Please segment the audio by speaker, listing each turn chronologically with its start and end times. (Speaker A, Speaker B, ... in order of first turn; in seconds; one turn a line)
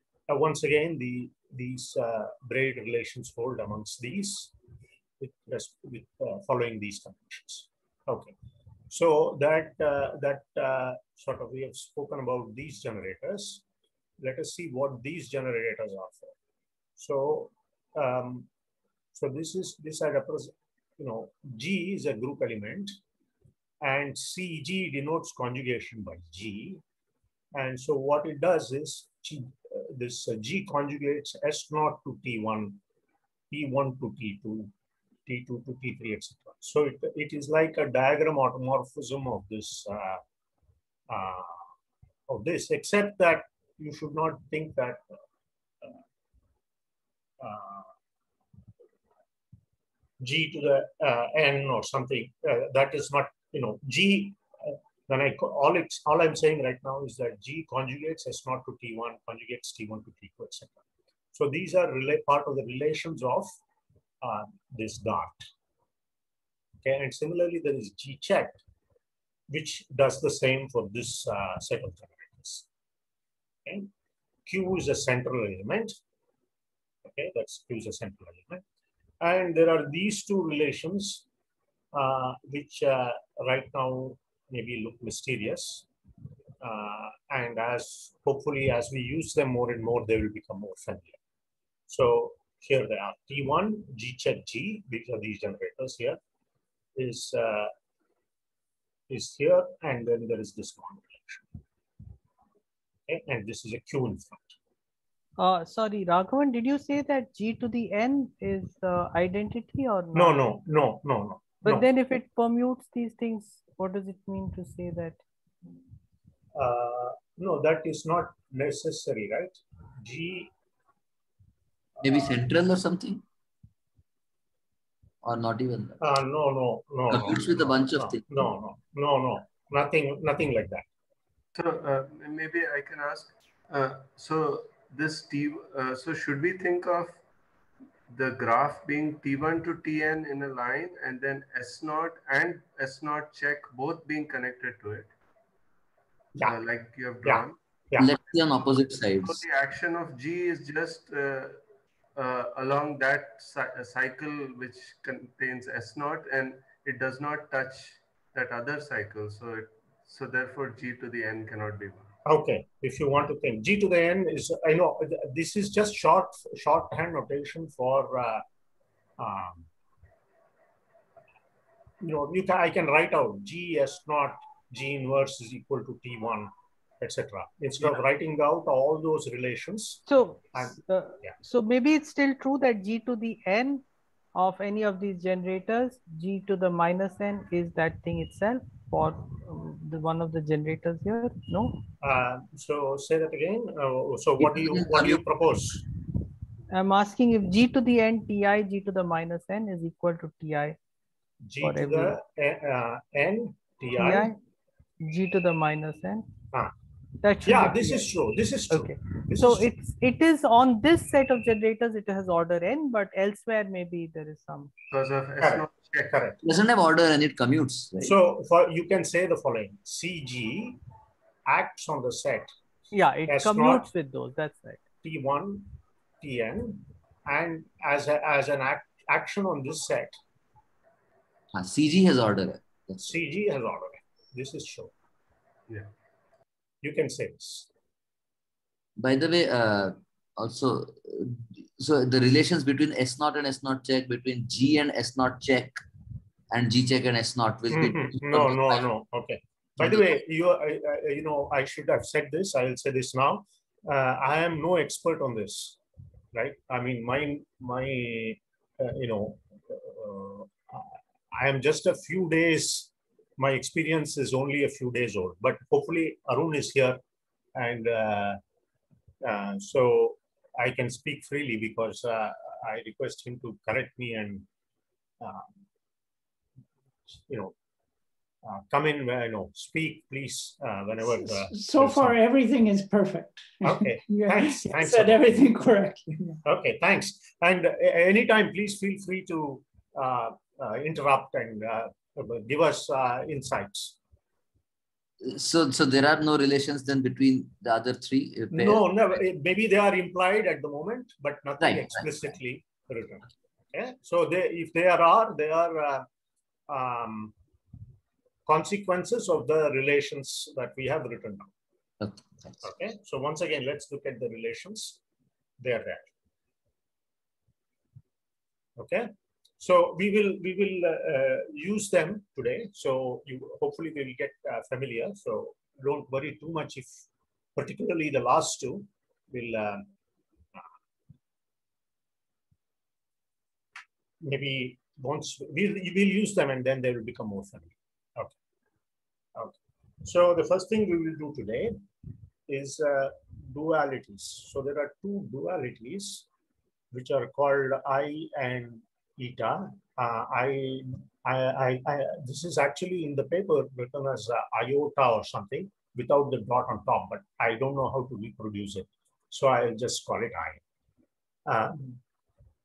Speaker A: 0.3-4.5
Speaker A: 5.2-8.3
Speaker A: 8.9-13.6
Speaker A: 14.2-16.3
Speaker A: 17.0-18.5
Speaker A: 19.1-22.9
Speaker A: 23.8-26.8
Speaker A: 27.5-32.8
Speaker A: 33.5-34.7
Speaker A: 35.2-40.2
Speaker A: 41.1-41.6
Speaker A: 42.3-45.2
Speaker A: 47.4-47.9
Speaker A: 50.2-60.8
Speaker A: 61.3-63.5
Speaker A: 64.2-65.5
Speaker A: 66.8-68.6
Speaker A: 69.5-72.6
Speaker A: 74.5-75.9
Speaker A: 77.0-78.6
Speaker A: 79.2-81.2
Speaker A: 81.9-85.8
Speaker A: 86.6-91.2
Speaker A: 91.9-96.2
Speaker A: 97.0-97.7
Speaker A: 99.1-101.5
Speaker A: 103.1-104.5
Speaker B: 105.4-110.4
Speaker A: 110.1-111.9
Speaker B: 111.6-115.2
Speaker A: 116.5-120.5
Speaker C: 122.0-123.2
Speaker C: 125.2-126.0
Speaker A: 126.0-130.8
Speaker C: 127.1-128.5
Speaker D: 131.5-137.2
Speaker D: 138.1-145.1
Speaker D: 146.4-147.6
Speaker A: 147.2-148.1
Speaker C: 148.0-149.4
Speaker D: 149.1-151.6
Speaker D: 152.1-162.1
Speaker A: 162.2-168.4
Speaker A: 169.2-169.7
Speaker A: 172.0-180.0
Speaker B: 180.1-191.8
Speaker A: 180.5-181.3
Speaker A: 192.0-195.8
Speaker C: 194.4-195.2
Speaker B: 196.7-200.8
Speaker A: 201.4-204.3
Speaker B: 201.6-202.2
Speaker B: 204.0-204.4
Speaker B: 205.0-206.3
Speaker B: 207.2-208.1
Speaker A: 207.4-209.7
Speaker B: 208.7-214.7
Speaker D: 214.9-216.1
Speaker A: 215.4-216.4
Speaker C: 216.4-218.2
Speaker A: 218.0-220.8
Speaker A: 221.5-222.5
Speaker B: 222.9-224.8
Speaker A: 223.3-223.8
Speaker A: 225.0-230.2
Speaker C: 231.5-233.1
Speaker A: 233.0-234.9
Speaker A: 236.8-237.7
Speaker C: 239.0-245.8
Speaker C: 246.5-248.8
Speaker A: 247.7-255.8
Speaker C: 249.8-250.2
Speaker A: 256.3-267.0
Speaker A: 267.6-268.4
Speaker A: 269.2-274.5
Speaker A: 275.2-275.5
Speaker A: 277.1-277.5
Speaker A: 278.4-282.2
Speaker E: 281.0-286.4
Speaker A: 283.6-285.2
Speaker A: 286.4-294.0
Speaker C: 295.2-298.9
Speaker A: 298.5-306.1
Speaker C: 301.6-302.1
Speaker A: 306.7-307.3
Speaker A: 308.4-311.5
Speaker C: 312.0-312.6
Speaker A: 312.6-315.0
Speaker A: 315.6-316.1
Speaker A: 318.8-327.0
Speaker A: 327.6-329.9
Speaker A: 334.2-338.3
Speaker A: 339.3-341.8
Speaker A: 342.5-346.2
Speaker A: 346.9-360.6
Speaker A: 361.4-362.0